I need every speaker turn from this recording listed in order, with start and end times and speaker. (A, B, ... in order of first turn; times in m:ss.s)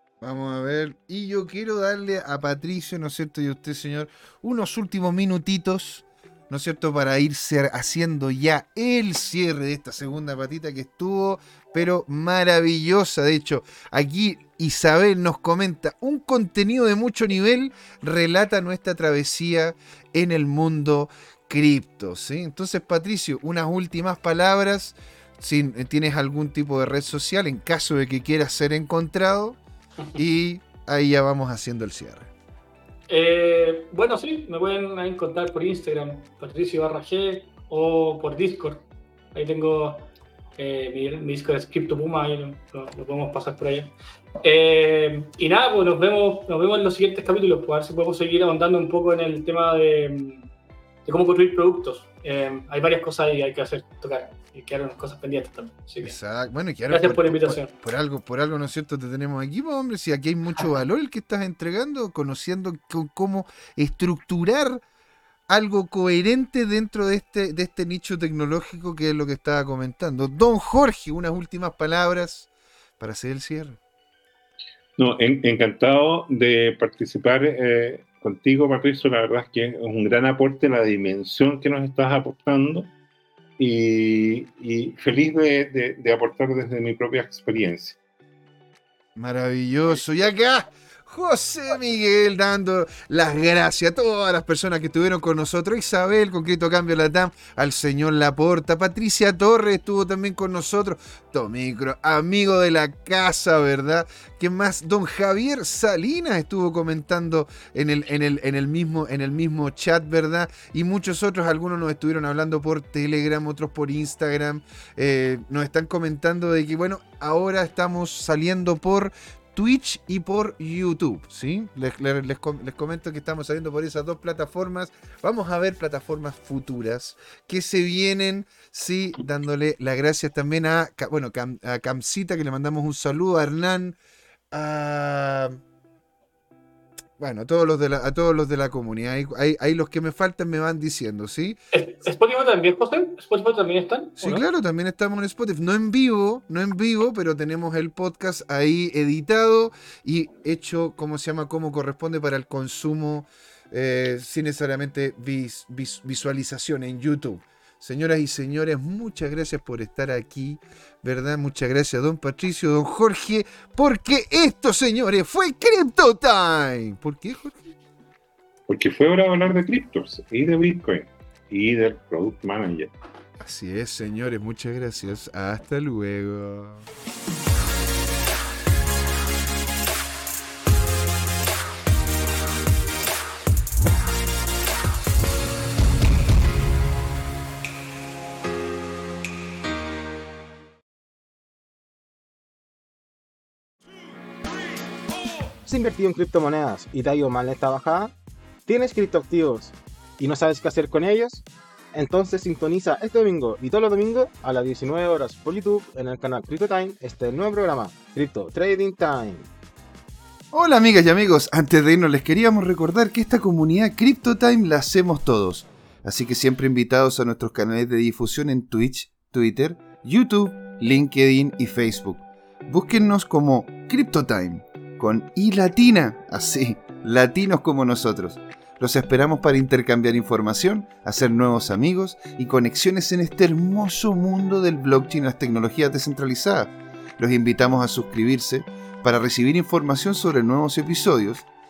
0:00.2-0:29.6 A
0:30.2-0:32.3 A
0:33.1-0:50.5 B
0:51.0-0:56.2 B
0:56.0-1:04.8 A
0:56.9-0:57.7 B
1:05.5-1:13.8 A
1:15.0-1:22.9 C
1:23.6-1:28.0 C
1:29.2-2:14.0 A
2:14.5-2:15.6 A
2:17.2-2:21.6 A
2:21.7-2:24.4 B
2:24.2-2:47.6 A
2:48.7-2:52.9 C
2:53.4-2:56.8 A
3:15.6-3:18.1 D
3:18.7-3:29.5 D
3:30.5-4:01.5 A